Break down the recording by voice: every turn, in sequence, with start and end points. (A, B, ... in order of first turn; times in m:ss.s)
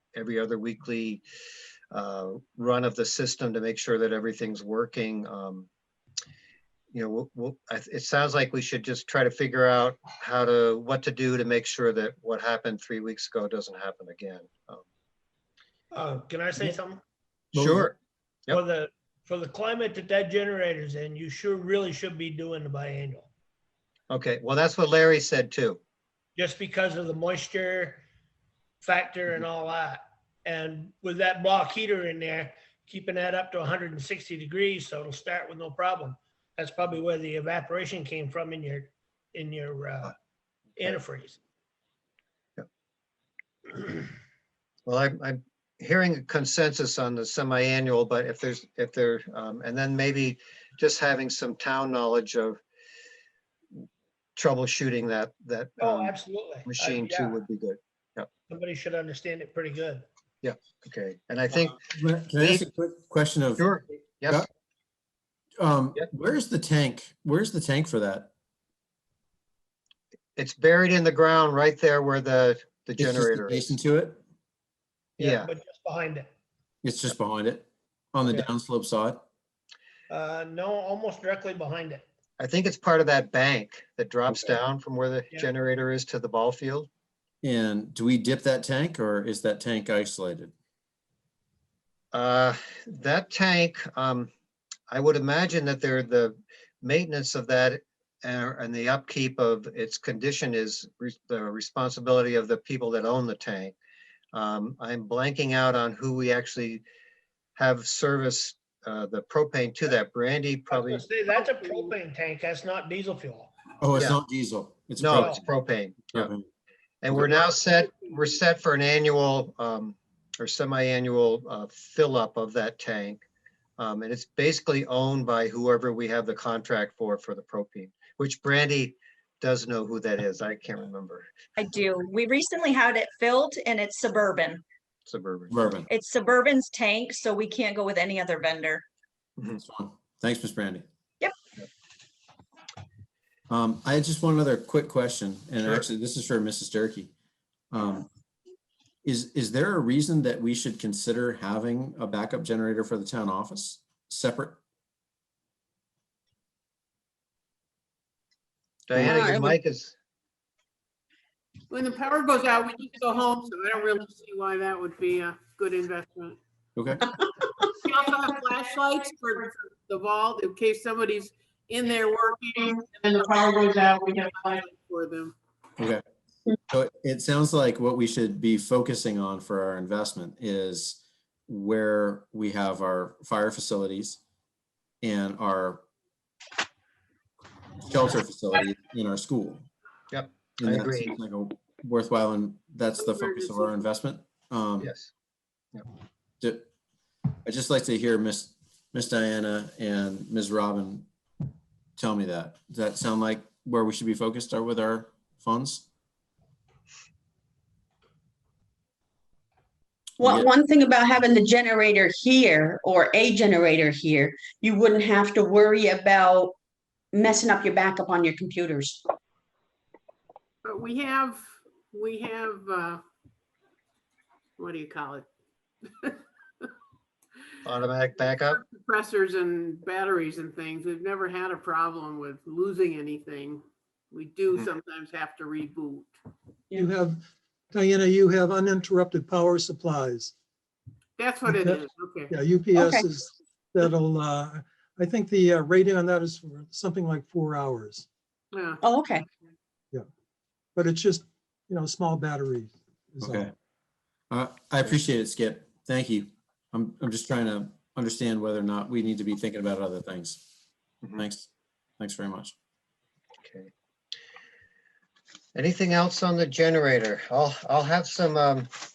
0:00.2-0:01.2 A
0:01.9-0:05.7 A
0:06.9-0:14.8 A
0:15.9-0:17.0 B
0:17.5-0:17.9 C
0:17.5-0:18.6 A
0:18.5-0:23.3 B
0:24.1-0:25.8 A
0:26.4-0:28.0 B
0:28.8-0:40.1 B
0:40.8-0:41.4 B
0:44.9-0:52.6 A
0:54.4-0:56.2 A
0:55.8-0:57.4 B
0:56.7-0:58.3 A
0:58.5-1:00.1 B
1:00.4-1:01.8 A
1:01.9-1:03.6 C
1:02.4-1:02.7 A
1:03.6-1:04.4 A
1:05.6-1:08.3 C
1:10.4-1:13.7 A
1:13.0-1:14.2 C
1:15.2-1:15.5 A
1:15.2-1:16.3 B
1:16.8-1:19.2 C
1:20.1-1:22.1 B
1:22.4-1:26.9 A
1:24.3-1:24.6 C
1:27.4-1:30.5 C
1:32.1-1:34.3 A
1:34.9-1:43.7 A
1:44.3-1:46.8 A
1:47.6-1:51.0 A
1:50.7-1:53.5 B
1:53.8-1:55.4 C
1:55.0-1:56.3 A
1:56.1-1:56.5 C
1:57.0-2:03.2 A
2:03.8-2:11.2 A
2:11.6-2:14.6 D
2:15.1-2:15.5 A
2:15.5-2:15.9 C
2:15.9-2:18.8 D
2:19.6-2:20.8 C
2:23.5-2:27.1 C
2:27.7-2:28.1 C
2:29.0-2:34.6 C
2:38.9-2:40.0 A
2:39.0-2:39.6 E
2:41.7-2:46.4 F
2:46.8-2:47.1 C
2:47.8-2:55.3 F
2:55.8-2:56.0 C
2:56.7-3:04.2 C
3:05.0-3:05.8 C
3:07.8-3:09.7 C
3:10.1-3:11.1 A
3:10.6-3:14.9 C
3:13.0-3:13.7 F
3:14.8-3:15.1 A
3:16.4-3:16.7 C
3:17.4-3:21.1 C
3:22.0-3:25.9 C
3:30.2-3:36.6 E
3:30.2-3:30.5 C
3:37.1-3:39.0 E
3:40.6-3:43.0 F
3:44.6-3:45.3 F
3:47.6-3:48.6 A
3:48.6-3:56.1 F
3:56.8-4:00.3 G
4:01.2-4:02.3 F
4:01.5-4:08.1 G
4:02.8-4:03.1 E
4:08.5-4:08.8 F
4:08.8-4:09.3 E
4:10.8-4:13.5 G
4:13.2-4:13.5 C
4:14.3-4:20.4 C
4:21.2-4:22.6 C
4:23.4-4:23.7 A
4:25.6-4:28.7 A